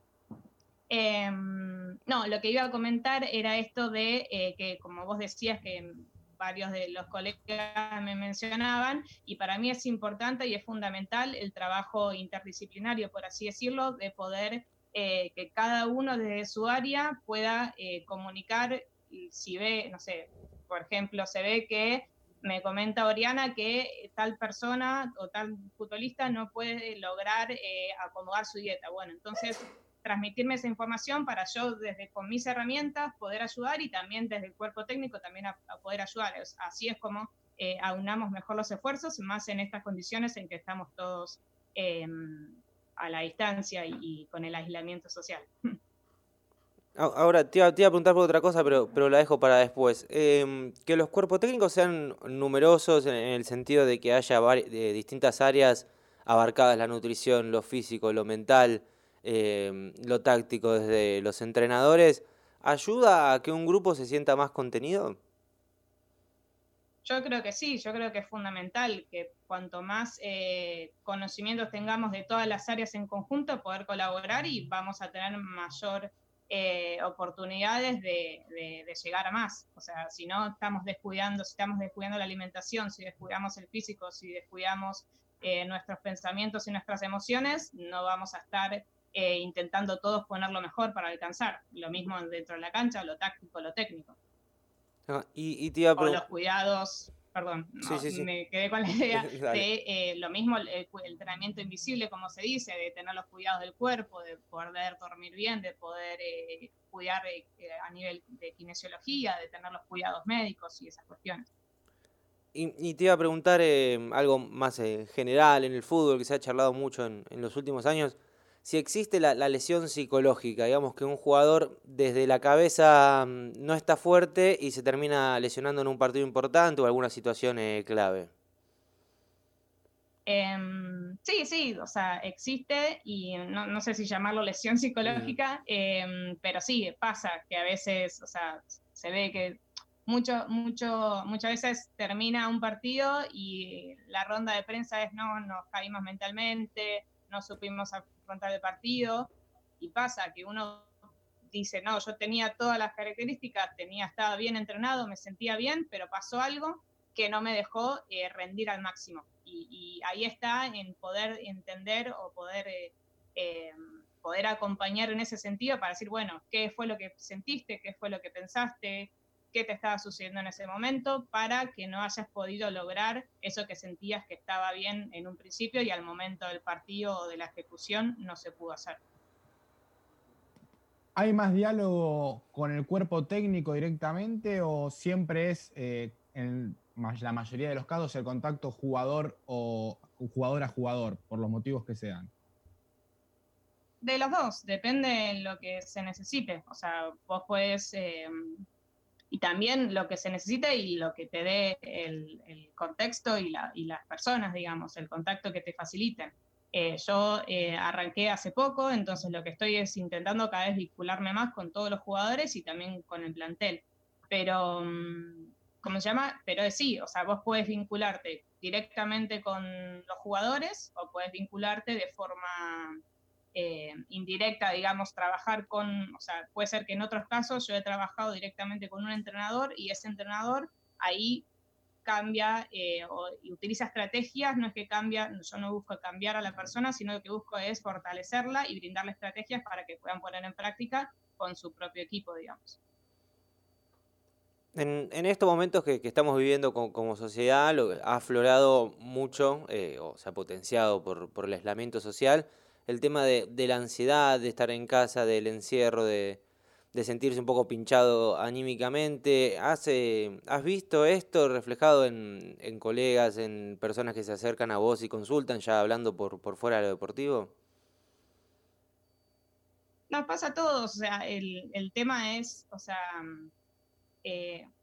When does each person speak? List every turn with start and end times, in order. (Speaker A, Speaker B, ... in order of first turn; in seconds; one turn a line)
Speaker A: 0.9-45.5
Speaker B: 47.0-65.2
Speaker A: 67.0-94.2
Speaker B: 95.1-96.2
Speaker A: 96.0-111.5
Speaker B: 97.8-98.3
Speaker B: 99.1-99.7
Speaker B: 112.5-128.3
Speaker A: 130.2-179.0
Speaker B: 135.1-135.4
Speaker C: 181.1-192.3
Speaker A: 194.0-198.7
Speaker A: 199.3-223.0
Speaker A: 223.5-231.5
Speaker A: 232.1-242.8
Speaker B: 244.8-256.4
Speaker B: 256.9-267.5
Speaker A: 270.1-273.5
Speaker A: 274.2-274.7